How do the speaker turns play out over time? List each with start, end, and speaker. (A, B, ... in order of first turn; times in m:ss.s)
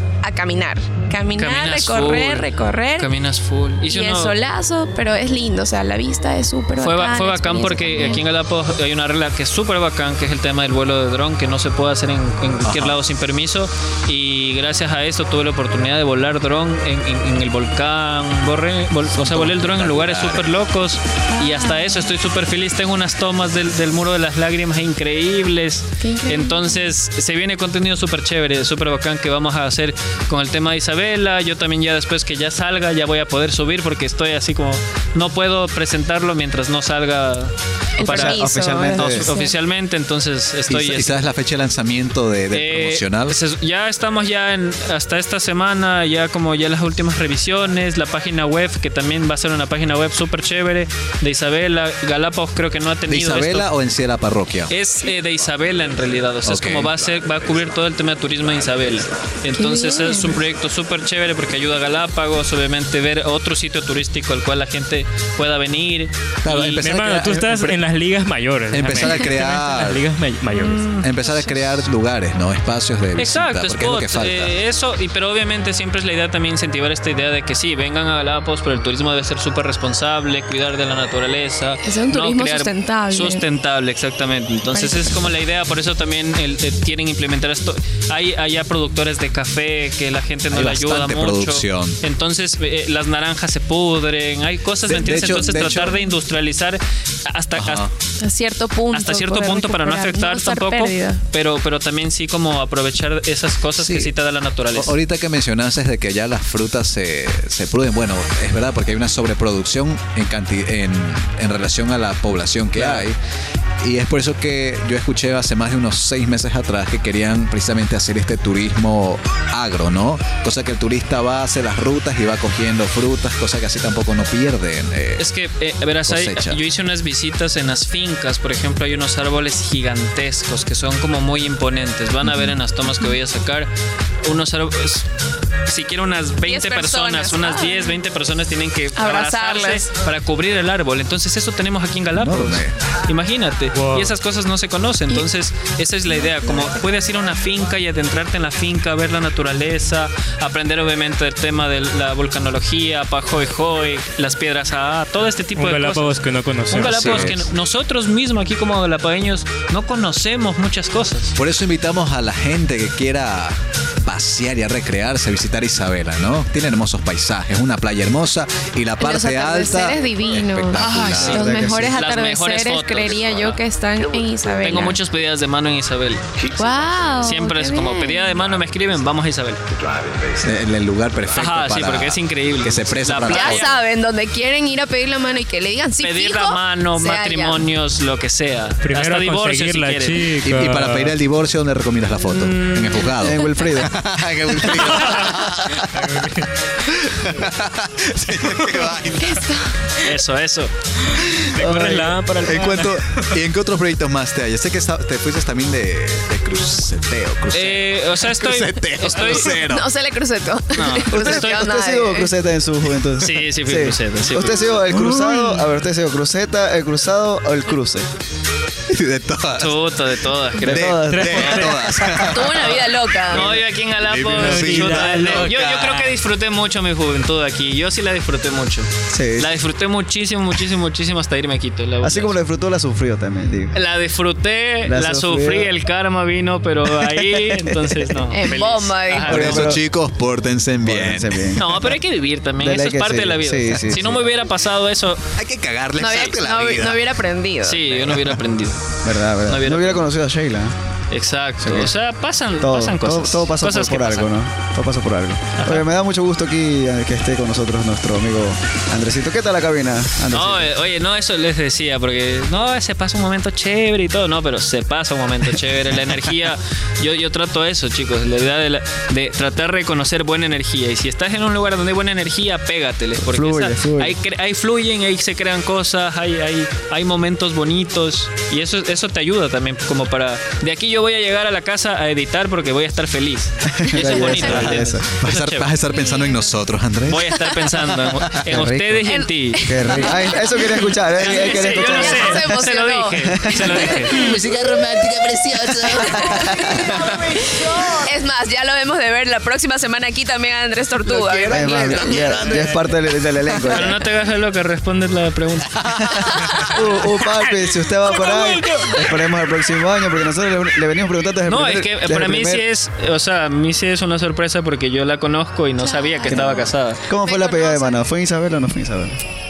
0:00.2-0:03.1 A
0:01.3-0:04.4 B
0:03.8-0:08.2 A
0:06.8-0:41.2 B
0:12.6-0:13.0 C
0:19.1-0:20.5 C
0:21.4-0:22.1 A
0:26.0-0:26.9 A
0:38.0-0:39.5 A
0:38.0-0:39.3 D
0:40.7-0:43.4 C
0:42.5-0:53.7 B
0:53.1-0:54.7 C
0:54.7-1:06.8 B
0:56.4-0:56.9 C
0:59.5-1:00.4 A
1:06.4-1:07.8 C
1:06.6-1:10.9 E
1:08.7-1:10.0 C
1:10.5-1:11.6 B
1:11.0-1:14.5 C
1:13.2-1:37.9 B
1:21.8-1:23.4 A
1:24.7-1:25.3 A
1:30.5-1:32.0 C
1:34.9-1:36.0 C
1:37.6-1:37.9 C
1:38.2-1:41.2 A
1:38.9-1:45.0 B
1:43.8-1:44.1 C
1:44.7-1:53.2 C
1:52.7-1:53.1 B
1:53.8-2:05.3 C
2:05.2-2:13.7 B
2:06.1-2:06.6 C
2:14.2-2:15.1 B
2:15.6-2:41.3 B
2:16.4-2:18.0 A
2:18.9-2:19.9 A
2:22.2-2:22.7 C
2:23.7-2:24.1 E
2:35.6-2:37.4 E
2:36.9-2:37.3 C
2:41.4-2:51.5 C
2:49.0-2:55.0 A
2:50.8-2:53.6 B
2:51.3-2:52.0 D
2:54.6-2:56.2 B
2:56.6-2:58.4 A
2:57.2-2:59.6 B
3:00.4-3:03.7 C
3:01.3-3:03.8 B
3:03.3-3:07.7 A
3:06.0-3:10.2 B
3:08.8-3:11.1 E
3:10.4-3:16.2 C
3:12.5-3:13.1 B
3:13.1-3:13.9 D
3:14.9-3:16.5 E
3:16.9-3:19.4 C
3:18.4-3:18.8 E
3:19.2-3:19.9 A
3:20.0-3:20.7 B
3:21.1-3:23.2 E
3:21.5-3:22.5 D
3:22.4-3:29.9 C
3:27.5-3:29.6 B
3:29.1-3:32.3 A
3:30.7-3:31.6 B
3:31.1-3:38.1 D
3:33.2-3:34.7 B
3:38.9-3:39.9 C
3:39.6-3:41.6 B
3:40.6-3:46.2 C
3:40.6-3:42.3 D
3:41.1-3:42.1 E
3:42.2-3:43.6 A
3:43.3-3:52.4 B
3:44.3-3:45.5 E
3:49.1-3:49.5 D
3:52.0-3:53.8 D
3:53.7-3:59.7 B
3:54.8-3:55.7 D
3:57.1-3:58.0 D
3:58.3-3:59.4 A
3:59.2-4:01.5 C
3:59.3-3:59.8 D
4:00.8-4:01.9 D
4:01.6-4:05.3 B
4:02.6-4:04.2 D
4:05.4-4:07.1 C
4:06.0-4:08.2 A
4:07.6-4:08.9 B
4:09.0-4:10.7 D
4:09.4-4:10.1 B
4:11.1-4:14.3 B
4:11.6-4:11.9 D
4:12.6-4:20.7 D
4:15.6-4:15.8 B
4:20.3-4:45.7 B
4:33.2-4:34.1 D
4:43.6-4:45.3 D
4:44.0-4:44.4 A
4:44.5-4:48.2 C
4:46.0-4:46.3 A
4:47.1-4:49.7 B
4:48.4-4:52.6 D
4:49.0-4:54.4 A
4:51.2-4:54.2 B
4:53.3-4:53.8 D
4:54.1-4:57.3 C
4:55.8-4:57.2 A
4:56.2-4:56.9 D
4:57.8-5:02.4 A
5:01.0-5:02.8 C
5:01.5-5:04.0 D
5:03.6-5:05.8 B
5:05.8-5:06.8 C
5:06.4-5:06.7 A
5:06.6-5:12.6 D
5:08.1-5:08.9 E
5:11.5-5:17.0 B
5:15.8-5:16.6 A
5:16.2-5:19.2 D
5:17.2-5:17.9 A